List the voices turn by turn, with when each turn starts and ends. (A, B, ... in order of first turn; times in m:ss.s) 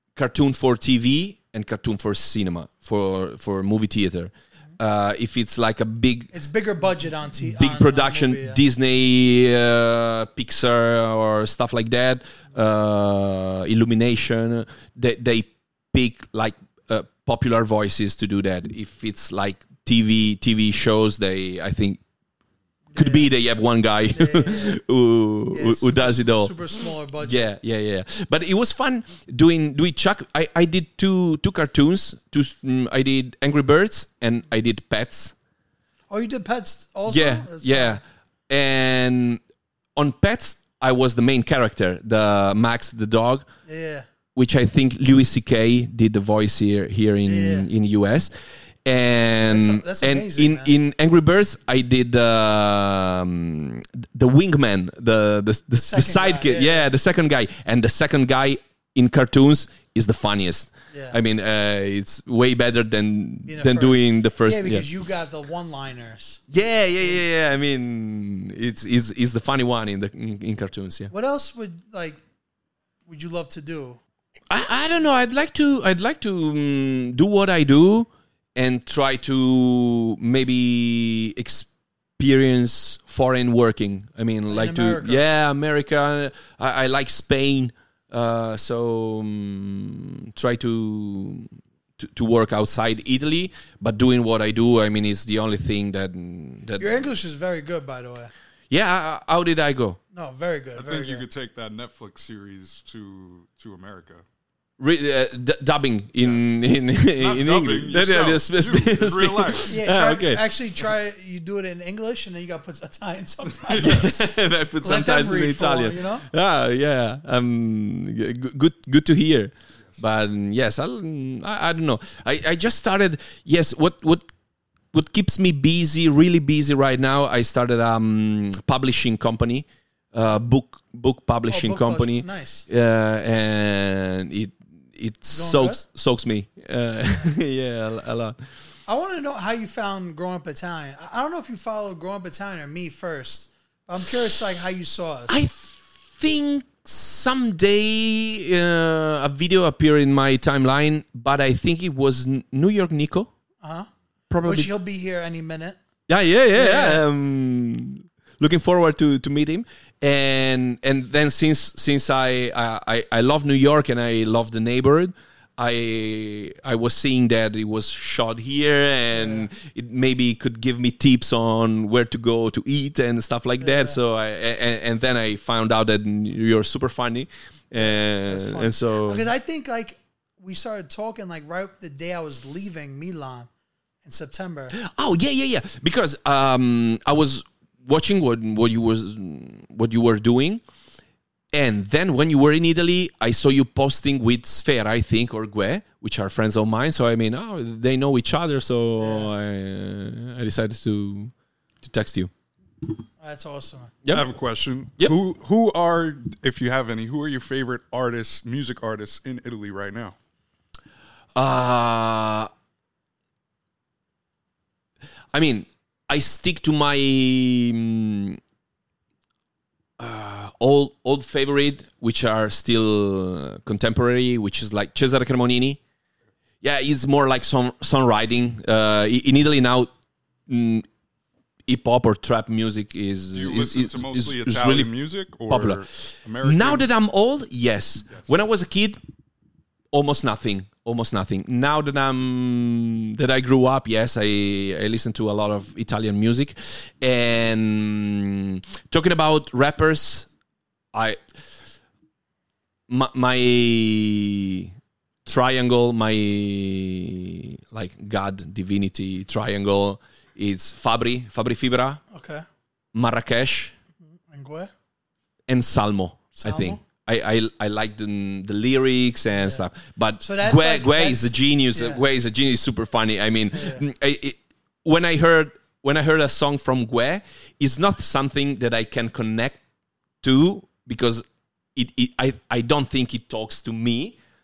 0:00.1-0:06.3 A
0:06.3-0:08.6 B
0:07.5-0:22.0 A
0:22.9-0:23.3 B
0:22.9-0:26.5 A
0:24.1-0:24.8 B
0:25.5-0:27.5 B
0:27.2-0:35.3 A
0:36.1-0:38.0 B
0:37.1-0:39.4 A
0:40.0-0:43.5 A
0:43.6-0:44.0 B
0:44.3-0:48.3 A
0:47.2-0:47.7 B
0:48.8-1:04.8 A
0:49.4-0:50.7 B
0:55.7-0:56.9 B
1:00.9-1:01.2 B
1:03.4-1:06.4 B
1:06.5-1:11.1 A
1:11.1-1:12.2 B
1:13.1-1:14.0 B
1:14.5-1:37.0 A
1:24.5-1:25.2 B
1:36.8-1:38.3 B
1:38.7-1:40.0 A
1:40.1-1:41.2 B
1:40.8-1:44.2 C
1:44.8-1:50.4 A
1:46.2-1:49.8 C
1:49.7-1:56.2 B
1:53.6-1:54.0 C
1:53.8-2:04.3 A
2:04.9-2:18.4 A
2:11.5-2:12.6 B
2:15.3-2:15.8 B
2:18.9-2:25.3 B
2:25.3-2:33.3 A
2:33.6-2:33.9 B
2:34.3-2:34.7 A
2:34.4-2:35.8 B
2:36.1-2:59.3 A
2:36.5-2:37.0 B
2:49.1-2:49.5 B
2:53.6-2:54.0 B
2:57.8-3:03.5 B
3:04.0-3:04.7 B
3:04.7-3:10.6 A
3:11.5-3:22.3 A
3:19.0-3:19.3 B
3:23.2-3:23.9 B
3:24.1-3:30.2 C
3:31.3-3:32.5 A
3:35.3-3:38.4 A
3:40.0-3:45.8 A
3:46.6-3:49.9 A
3:50.5-3:50.9 A
3:51.7-3:54.9 A
3:53.3-3:56.9 C
3:55.5-3:59.0 A
3:59.9-4:10.3 A
4:10.9-4:11.2 A
4:12.9-4:14.7 A
4:15.2-4:22.0 A
4:22.1-4:22.4 B
4:22.9-4:23.7 A
4:24.0-4:24.7 B
4:25.5-4:39.6 A
4:26.4-4:26.8 B
4:29.3-4:29.6 B
4:30.2-4:32.0 B
4:33.5-4:33.8 B
4:40.2-4:44.2 A